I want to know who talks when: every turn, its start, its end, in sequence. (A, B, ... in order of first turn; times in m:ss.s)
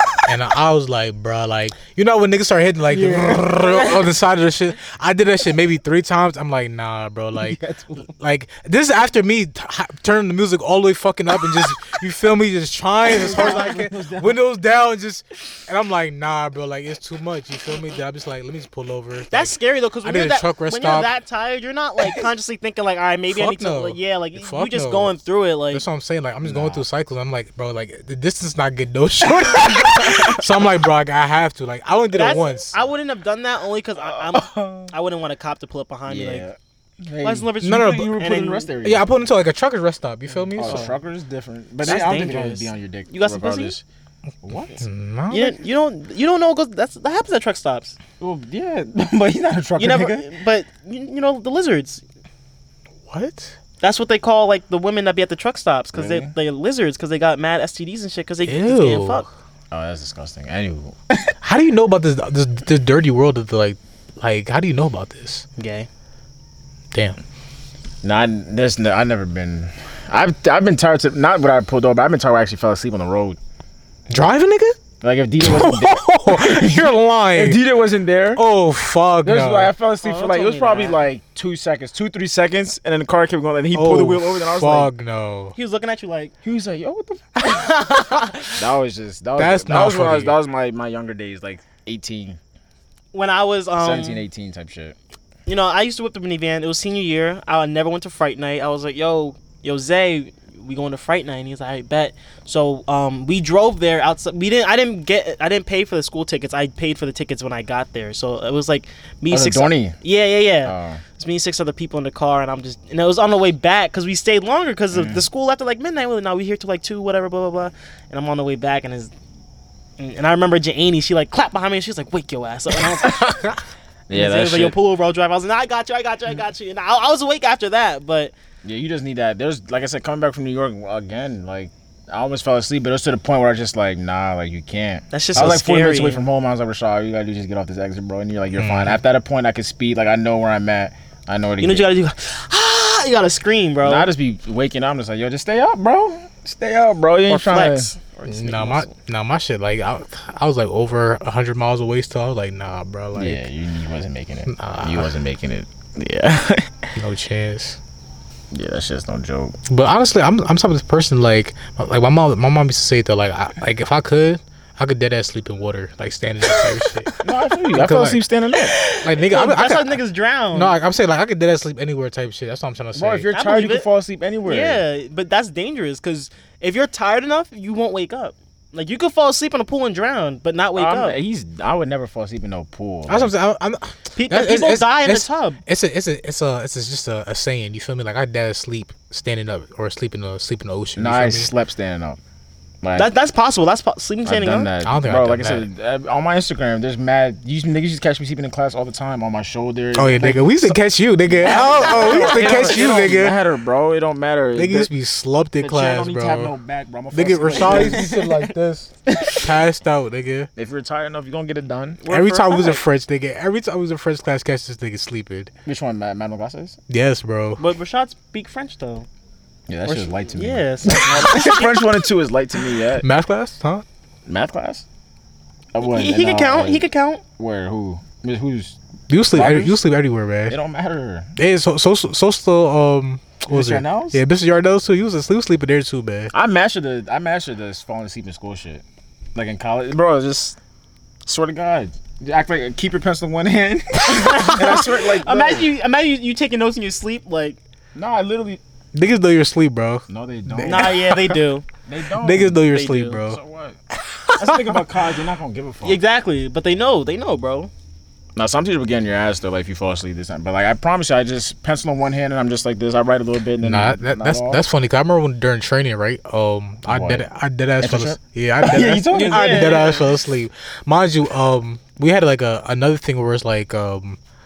0:00.2-0:21.1 A
0:02.9-0:04.0 B
0:07.4-0:08.1 B
0:13.1-0:14.4 B
0:13.4-0:13.7 C
0:19.3-0:25.8 C
0:23.3-0:25.2 A
0:25.7-0:32.8 A
0:26.4-0:26.8 B
0:29.4-0:30.4 B
0:32.1-0:36.5 C
0:34.0-0:34.9 B
0:36.1-0:39.1 B
0:37.2-0:38.7 C
0:37.6-0:38.2 A
0:38.8-0:40.9 A
0:40.6-0:43.8 B
0:40.6-0:41.0 C
0:41.8-0:43.8 C
0:44.4-0:44.8 B
0:44.8-0:45.6 A
0:45.3-0:48.0 C
0:48.2-0:50.3 B
0:49.8-0:52.0 C
0:53.1-0:53.6 A
0:53.8-0:59.3 C
0:55.9-0:56.3 B
0:58.5-0:59.3 A
0:59.7-1:01.3 B
1:01.4-1:05.4 A
1:05.6-1:05.9 C
1:06.9-1:07.2 A
1:08.0-1:13.4 B
1:14.1-1:14.8 A
1:15.0-1:18.4 B
1:15.4-1:17.6 A
1:18.4-1:19.7 A
1:19.2-1:24.9 B
1:20.0-1:21.0 C
1:23.7-1:25.6 A
1:25.6-1:26.3 C
1:26.4-1:27.6 B
1:27.4-1:28.3 C
1:27.6-1:28.4 A
1:28.6-1:32.4 B
1:29.4-1:30.4 A
1:33.1-1:34.2 C
1:33.8-1:35.0 B
1:35.5-1:59.1 C
1:49.3-1:50.0 B
1:50.6-1:51.0 B
1:54.9-1:55.2 B
2:00.0-2:03.6 C
2:04.1-2:04.8 B
2:04.1-2:08.3 C
2:08.6-2:21.9 B
2:15.1-2:16.2 C
2:18.6-2:19.0 A
2:21.6-2:24.1 C
2:23.8-2:27.9 B
2:27.3-2:28.9 C
2:28.2-2:33.4 A
2:33.2-2:36.9 B
2:34.5-2:35.1 A
2:37.0-2:37.8 A
2:38.5-2:39.6 B
2:39.7-2:47.1 A
2:47.2-2:48.8 B
2:47.7-2:48.2 A
2:48.6-2:50.7 C
2:49.0-2:50.0 A
2:50.5-2:53.3 A
2:53.0-2:54.8 B
2:53.3-2:53.9 C
2:54.4-3:01.2 C
3:00.8-3:03.3 B
3:03.1-3:11.5 A
3:04.2-3:05.6 C
3:11.0-3:12.2 B
3:12.8-3:13.1 B
3:13.0-3:14.7 C
3:14.2-3:20.8 B
3:14.8-3:15.7 A
3:20.0-3:23.4 A
3:21.4-3:24.9 B
3:21.5-3:23.0 C
3:24.6-3:26.5 A
3:25.6-3:28.1 B
3:27.1-3:30.5 A
3:27.5-3:28.5 C
3:29.1-3:29.4 B
3:30.6-3:32.0 B
3:32.0-3:32.8 C
3:32.1-3:35.5 A
3:35.6-3:36.8 B
3:36.9-3:37.6 A
3:37.6-3:39.1 C
3:39.7-3:43.1 B
3:39.9-3:41.8 C
3:43.0-3:43.8 A
3:44.3-3:44.8 B
3:45.7-3:46.9 B
3:45.8-3:47.2 C
3:47.4-3:48.8 B
3:49.1-3:50.6 A
3:49.3-3:49.8 B
3:50.5-3:51.3 B
3:51.4-3:56.3 A
3:53.5-3:54.2 B
3:56.3-3:58.8 B
3:59.4-4:00.6 B
4:01.2-4:05.7 B
4:04.0-4:07.6 C
4:08.0-4:08.6 B
4:09.0-4:11.4 A
4:10.1-4:11.0 B
4:10.6-4:11.6 C
4:11.9-4:13.8 B
4:12.2-4:13.4 A
4:12.7-4:13.2 C
4:14.1-4:14.6 A
4:14.4-4:16.0 B
4:15.8-4:17.7 C
4:18.4-4:24.6 B
4:23.6-4:34.2 A
4:26.9-4:27.3 B
4:27.8-4:29.9 B
4:29.1-4:30.1 C